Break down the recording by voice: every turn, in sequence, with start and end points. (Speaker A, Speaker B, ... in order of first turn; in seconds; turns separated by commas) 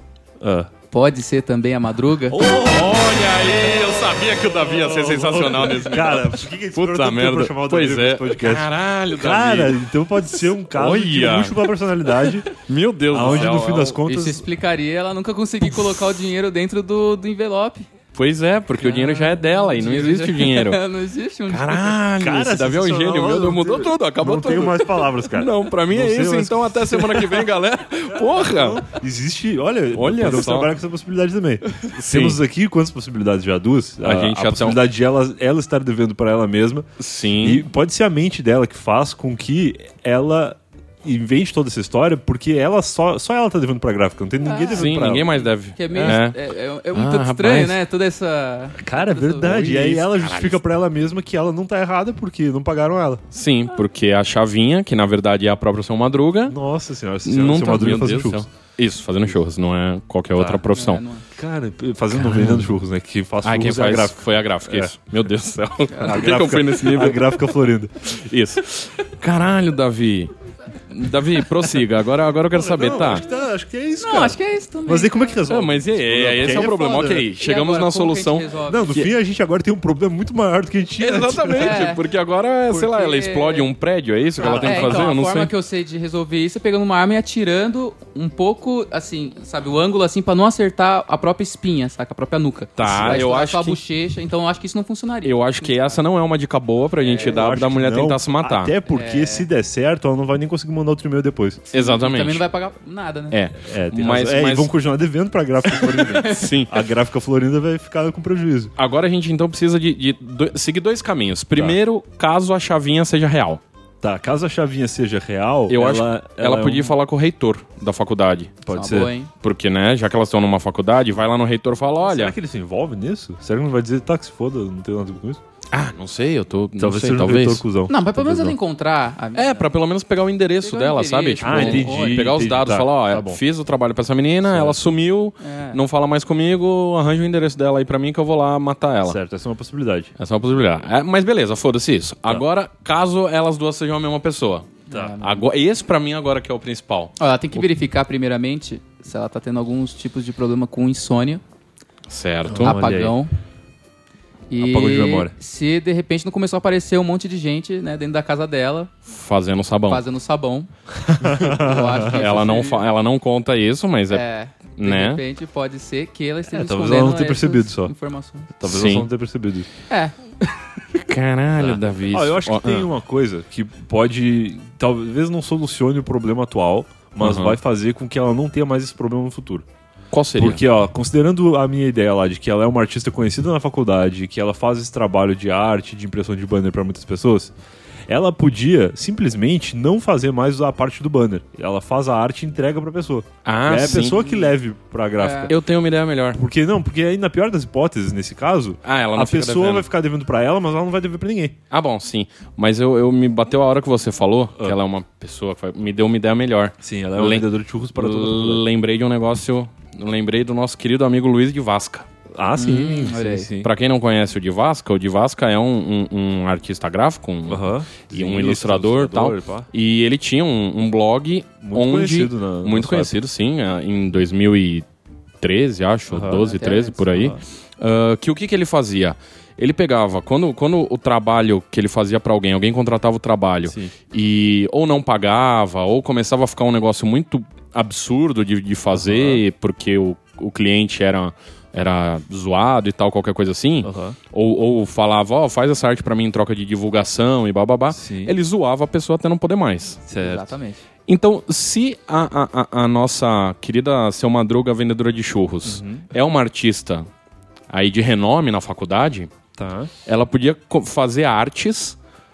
Speaker A: 0.4-0.7, Speaker B: 0.9-2.5, Speaker A: 2.3-3.4, Speaker C: 2.5-9.8, Speaker A: 4.5-12.5, Speaker C: 10.3-14.0, Speaker A: 13.1-14.4, Speaker B: 14.0-17.9, Speaker C: 18.1-20.8, Speaker B: 18.8-22.0, Speaker C: 21.5-28.8, Speaker A: 22.2-27.5, Speaker A: 28.3-45.3, Speaker C: 29.9-30.7, Speaker C: 31.7-32.4, Speaker C: 34.0-34.8, Speaker C: 37.0-37.6, Speaker B: 44.4-49.5, Speaker C: 44.7-46.3, Speaker C: 46.9-47.8, Speaker A: 48.8-53.2, Speaker C: 49.4-50.6, Speaker C: 53.3-56.6, Speaker A: 56.5-58.5, Speaker C: 57.2-61.0, Speaker A: 60.3-60.7, Speaker B: 60.7-61.2, Speaker A: 61.3-64.9, Speaker C: 62.1-62.7, Speaker C: 63.4-67.5, Speaker B: 65.9-66.3, Speaker A: 66.0-67.9, Speaker C: 68.1-70.3, Speaker C: 70.9-73.3, Speaker A: 72.5-77.3, Speaker B: 74.0-75.4, Speaker C: 75.5-79.1, Speaker B: 76.4-78.9, Speaker A: 78.7-81.9, Speaker C: 81.0-85.5, Speaker B: 81.5-82.0, Speaker B: 82.7-83.7, Speaker A: 84.4-85.0, Speaker B: 84.4-96.0, Speaker C: 92.8-93.8, Speaker A: 92.8-93.2, Speaker C: 95.2-98.7, Speaker B: 97.0-97.4, Speaker A: 97.2-101.6, Speaker B: 98.9-99.5, Speaker C: 101.7-102.4, Speaker B: 101.7-103.4, Speaker C: 103.3-104.7, Speaker A: 103.6-108.7, Speaker C: 105.6-106.8, Speaker B: 106.0-106.4, Speaker C: 108.8-113.6, Speaker A: 114.0-116.9, Speaker C: 115.7-118.6, Speaker A: 118.6-119.1, Speaker B: 118.7-119.3, Speaker C: 119.4-122.3, Speaker A: 122.0-125.4, Speaker C: 125.7-127.6, Speaker A: 126.8-128.6, Speaker B: 127.9-129.7, Speaker C: 129.3-139.2, Speaker B: 130.6-132.3, Speaker A: 131.4-133.4, Speaker A: 134.4-134.8, Speaker B: 135.4-135.8, Speaker A: 139.0-140.1, Speaker C: 140.2-147.6, Speaker B: 144.9-145.4, Speaker B: 147.2-151.4, Speaker C: 152.1-152.8, Speaker A: 152.5-153.2, Speaker B: 152.5-153.3, Speaker B: 154.5-158.9, Speaker A: 154.6-155.3, Speaker C: 159.1-160.0, Speaker B: 159.9-162.8, Speaker A: 161.0-162.2, Speaker C: 162.0-164.2, Speaker B: 164.1-168.5, Speaker C: 164.8-165.2, Speaker A: 166.5-167.9, Speaker A: 168.6-169.7, Speaker C: 168.7-169.1, Speaker B: 169.9-170.2, Speaker C: 170.9-172.9, Speaker A: 171.6-179.6, Speaker C: 177.2-177.6, Speaker C: 180.1-180.6, Speaker A: 180.3-187.5, Speaker A: 188.1-195.6, Speaker C: 193.4-194.2, Speaker B: 194.1-194.5, Speaker B: 195.2-195.5, Speaker C: 195.5-196.4, Speaker A: 196.3-201.6, Speaker C: 198.8-199.9, Speaker C: 201.7-212.1, Speaker A: 206.8-208.6, Speaker A: 212.3-213.7, Speaker B: 212.6-213.5, Speaker C: 213.6-224.8, Speaker A: 217.5-219.7, Speaker A: 221.6-223.1, Speaker C: 225.4-250.0, Speaker A: 226.1-226.5, Speaker B: 226.4-227.1, Speaker A: 227.1-227.4, Speaker A: 233.7-233.9, Speaker A: 238.9-239.4, Speaker A: 243.8-244.2, Speaker A: 247.9-248.3, Speaker A: 250.1-250.5, Speaker B: 250.2-250.8, Speaker C: 251.1-257.1, Speaker A: 255.6-256.1, Speaker C: 257.7-259.3, Speaker A: 259.6-259.9, Speaker C: 260.1-262.0